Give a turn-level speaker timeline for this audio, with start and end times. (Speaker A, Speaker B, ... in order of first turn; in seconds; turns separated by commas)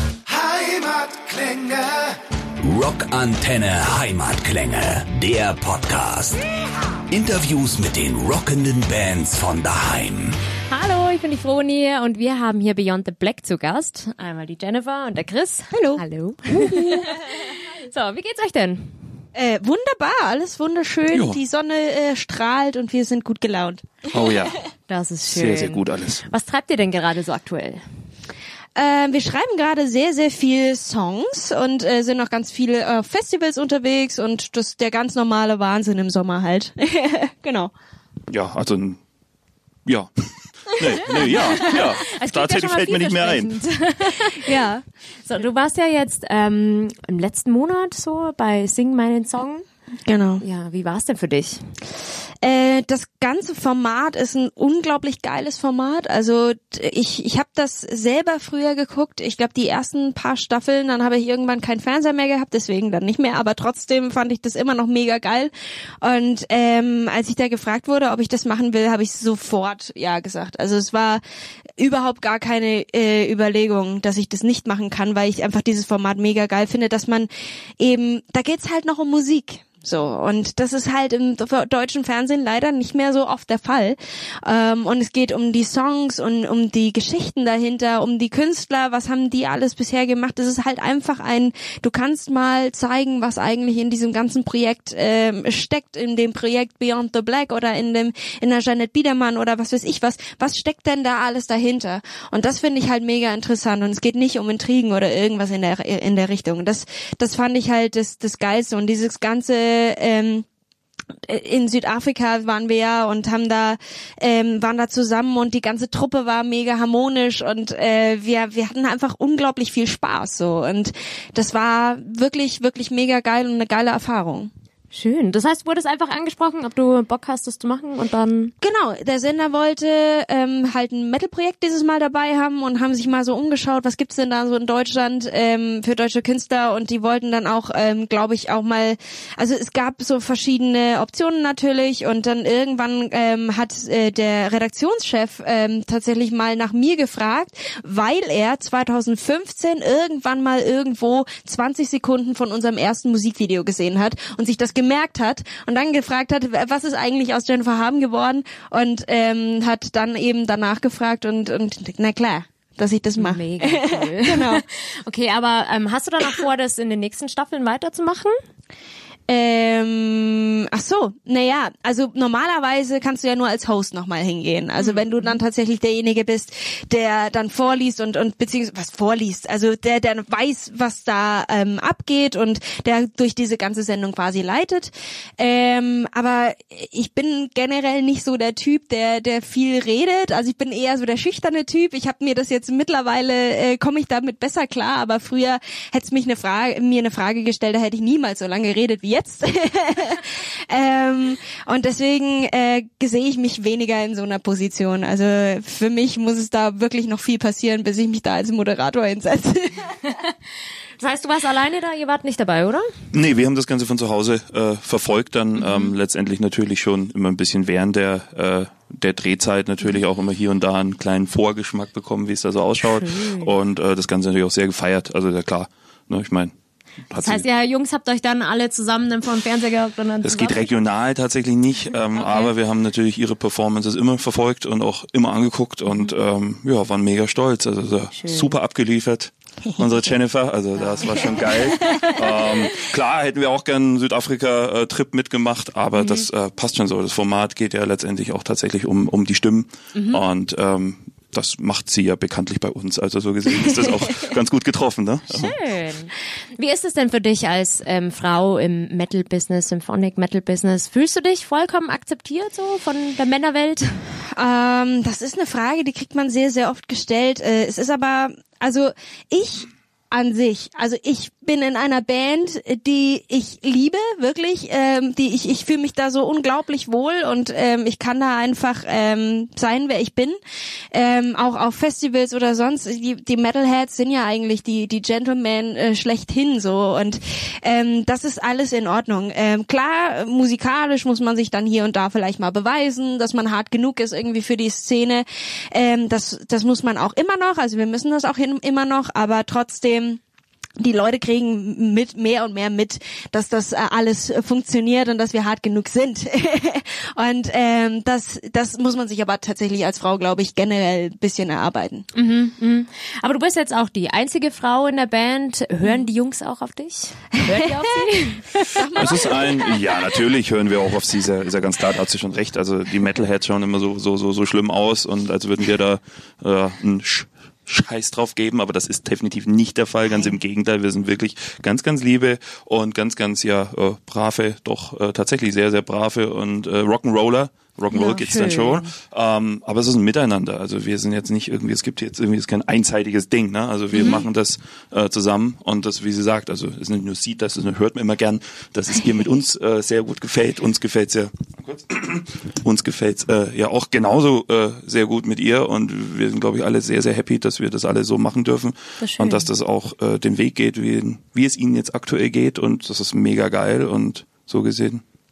Speaker A: 0.2-6.4, Speaker A: 7.1-10.3, Speaker B: 10.7-19.0, Speaker C: 15.7-17.1, Speaker C: 19.3-24.1, Speaker D: 21.1-21.4, Speaker D: 24.1-24.6, Speaker B: 24.9-27.8, Speaker D: 25.3-26.2, Speaker C: 28.8-37.7, Speaker D: 38.3-39.0, Speaker D: 39.9-43.5, Speaker C: 40.9-41.8, Speaker B: 41.1-44.6, Speaker C: 44.3-44.8, Speaker B: 45.2-49.6, Speaker C: 50.0-50.4, Speaker B: 50.4-51.7, Speaker C: 52.4-71.2, Speaker C: 71.8-110.5, Speaker C: 111.2-124.5, Speaker B: 124.9-128.5, Speaker C: 128.6-164.6, Speaker B: 163.2-168.3, Speaker C: 169.3-210.0, Speaker B: 174.8-175.4, Speaker B: 210.0-210.3, Speaker B: 211.0-212.9, Speaker D: 213.1-226.5, Speaker B: 215.6-215.9, Speaker B: 223.0-223.5, Speaker D: 227.1-227.4, Speaker B: 227.2-230.7, Speaker D: 230.2-255.5, Speaker B: 232.1-232.5, Speaker B: 238.2-238.5, Speaker B: 240.8-242.2, Speaker C: 241.6-242.2, Speaker B: 246.0-246.2, Speaker B: 249.9-250.2, Speaker B: 255.3-263.9, Speaker C: 264.4-280.4, Speaker C: 280.9-300.2, Speaker C: 300.8-312.1, Speaker B: 312.1-319.0, Speaker C: 317.5-317.7, Speaker C: 318.6-319.8, Speaker D: 318.9-365.0, Speaker B: 337.9-338.9, Speaker B: 343.9-344.2, Speaker B: 359.0-359.5